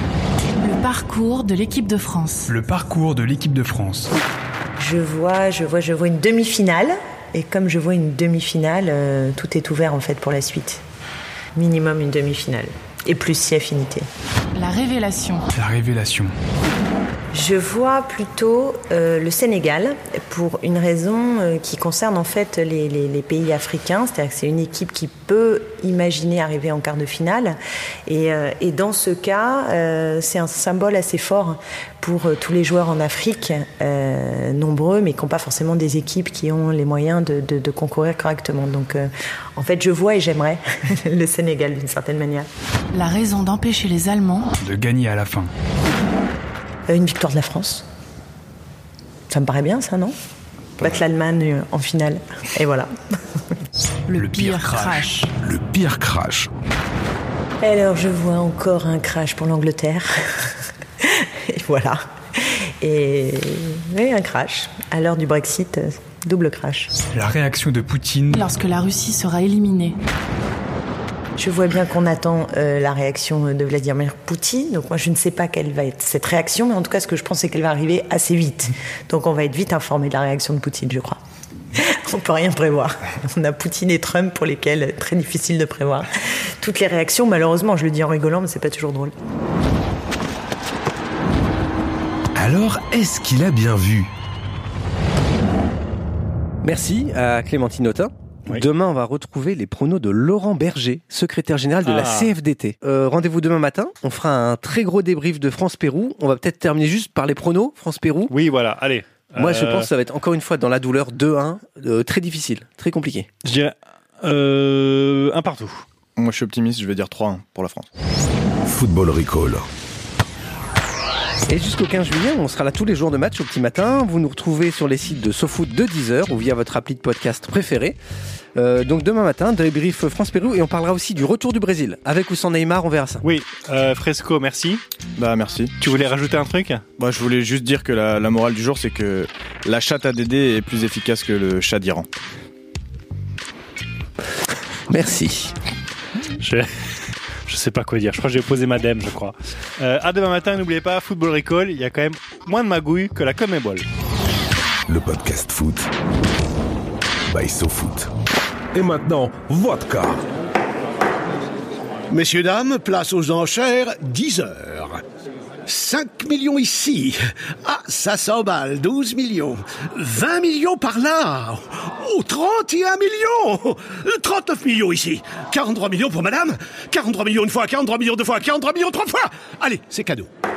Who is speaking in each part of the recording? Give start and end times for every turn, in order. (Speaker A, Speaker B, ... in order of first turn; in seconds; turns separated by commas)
Speaker A: 0.6-2.5, Speaker B: 2.5-4.1, Speaker C: 4.8-10.8, Speaker C: 11.5-14.1, Speaker A: 14.5-15.5, Speaker B: 15.5-16.3, Speaker C: 17.3-42.5, Speaker A: 42.9-44.5, Speaker B: 44.6-45.5, Speaker C: 46.9-47.9, Speaker C: 49.3-50.1, Speaker C: 50.8-52.9, Speaker A: 54.1-55.3, Speaker B: 54.1-55.2, Speaker D: 55.3-56.5, Speaker C: 57.6-66.9, Speaker B: 67.1-68.5, Speaker A: 68.3-70.0, Speaker C: 71.4-81.2, Speaker C: 81.7-86.1, Speaker C: 86.6-89.1, Speaker D: 92.3-94.1, Speaker E: 96.6-108.3, Speaker F: 101.8-102.3, Speaker F: 108.3-109.9, Speaker E: 109.3-113.3, Speaker F: 113.4-115.8, Speaker G: 116.2-117.9, Speaker D: 118.6-119.6, Speaker E: 121.5-128.0, Speaker E: 128.6-133.2, Speaker F: 133.2-134.8, Speaker G: 135.2-135.7, Speaker F: 135.8-136.8, Speaker G: 137.0-142.1, Speaker E: 144.9-145.5, Speaker F: 146.4-153.8, Speaker D: 154.9-155.9, Speaker D: 157.3-158.1, Speaker D: 158.7-160.2, Speaker H: 162.1-165.0, Speaker H: 165.7-180.3